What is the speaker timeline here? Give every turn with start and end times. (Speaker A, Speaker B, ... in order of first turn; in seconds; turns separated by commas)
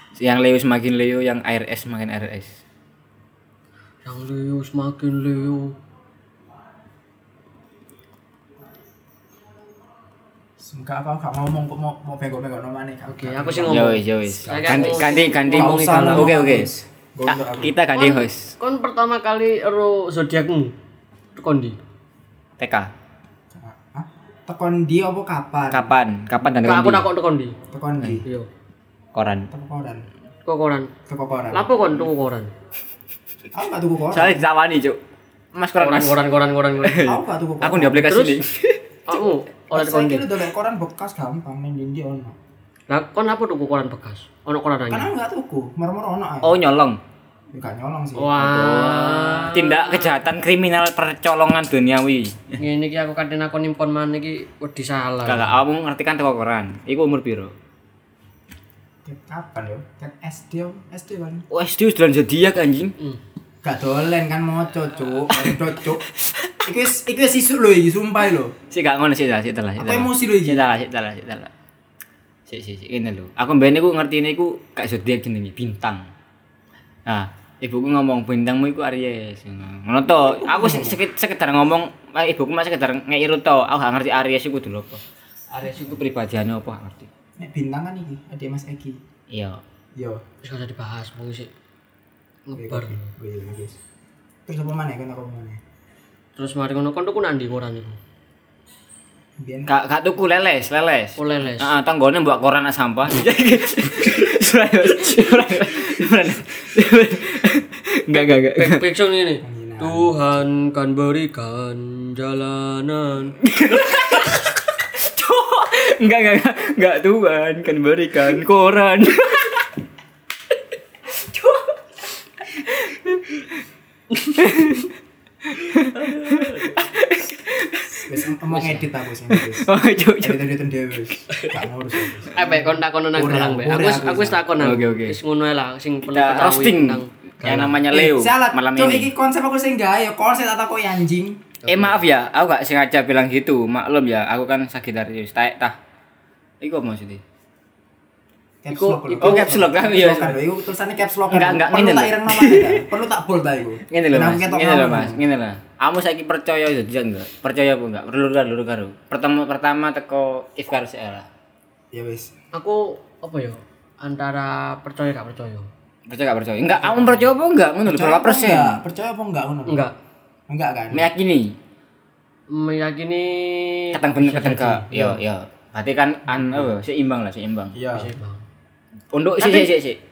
Speaker A: 0.2-2.5, Speaker B: 4.0-5.7, Speaker C: 10.6-17.8, Speaker B: 13.1-16.3, Speaker A: 13.7-16.7, Speaker A: 17.2-18.6, Speaker B: 17.9-20.7, Speaker B: 21.4-21.8, Speaker A: 22.6-22.9, Speaker C: 23.5-25.9, Speaker A: 25.7-27.1, Speaker B: 26.6-27.6, Speaker C: 27.7-28.2, Speaker A: 29.1-29.5, Speaker C: 29.5-30.1, Speaker B: 30.4-30.9, Speaker C: 31.1-31.7, Speaker B: 31.5-32.5, Speaker C: 33.5-34.4, Speaker A: 34.1-35.0, Speaker A: 35.5-36.2, Speaker B: 35.8-37.1, Speaker A: 36.8-38.8, Speaker C: 37.0-38.1, Speaker B: 38.0-38.4, Speaker B: 39.1-40.3, Speaker C: 39.7-42.4, Speaker B: 42.9-45.1, Speaker C: 44.9-46.6, Speaker A: 46.4-47.0, Speaker C: 47.5-49.0, Speaker B: 48.2-50.1, Speaker A: 48.4-52.6, Speaker B: 52.6-55.6, Speaker A: 55.2-57.5, Speaker C: 59.0-61.4, Speaker A: 61.5-62.9, Speaker C: 63.6-66.0, Speaker A: 65.2-66.5, Speaker C: 66.6-68.5, Speaker A: 68.7-71.5, Speaker C: 69.8-70.6, Speaker A: 72.5-76.1, Speaker A: 77.0-85.0, Speaker C: 80.2-81.0, Speaker A: 85.5-87.1, Speaker C: 87.4-89.0, Speaker A: 89.3-89.6, Speaker C: 90.0-90.2, Speaker B: 90.4-91.5, Speaker B: 92.5-93.1, Speaker C: 92.5-93.8, Speaker C: 94.5-95.6, Speaker B: 96.3-98.0, Speaker C: 99.4-99.7, Speaker A: 99.7-108.8, Speaker B: 101.2-101.7, Speaker B: 108.5-113.3, Speaker C: 109.4-110.4, Speaker A: 113.4-119.7, Speaker A: 122.5-123.4, Speaker A: 124.2-124.9, Speaker A: 125.5-130.5, Speaker B: 126.0-126.8, Speaker C: 128.0-129.7, Speaker C: 130.2-132.5, Speaker B: 132.3-137.8, Speaker C: 133.1-134.4, Speaker A: 134.6-135.2, Speaker A: 136.1-139.1, Speaker C: 137.8-141.5, Speaker B: 141.7-141.9, Speaker A: 141.7-145.8, Speaker A: 146.6-147.2, Speaker C: 148.6-155.2, Speaker B: 148.7-149.6, Speaker A: 149.2-150.4, Speaker A: 151.3-152.8, Speaker A: 153.9-161.3, Speaker C: 161.9-162.3, Speaker B: 162.5-165.7, Speaker A: 166.1-168.8, Speaker C: 167.8-169.8, Speaker B: 169.7-169.9, Speaker C: 170.5-171.1, Speaker A: 170.9-171.5, Speaker B: 172.5-175.2, Speaker A: 173.9-177.8, Speaker C: 177.7-178.1, Speaker B: 177.9-178.4, Speaker A: 179.1-180.0, Speaker B: 179.4-179.7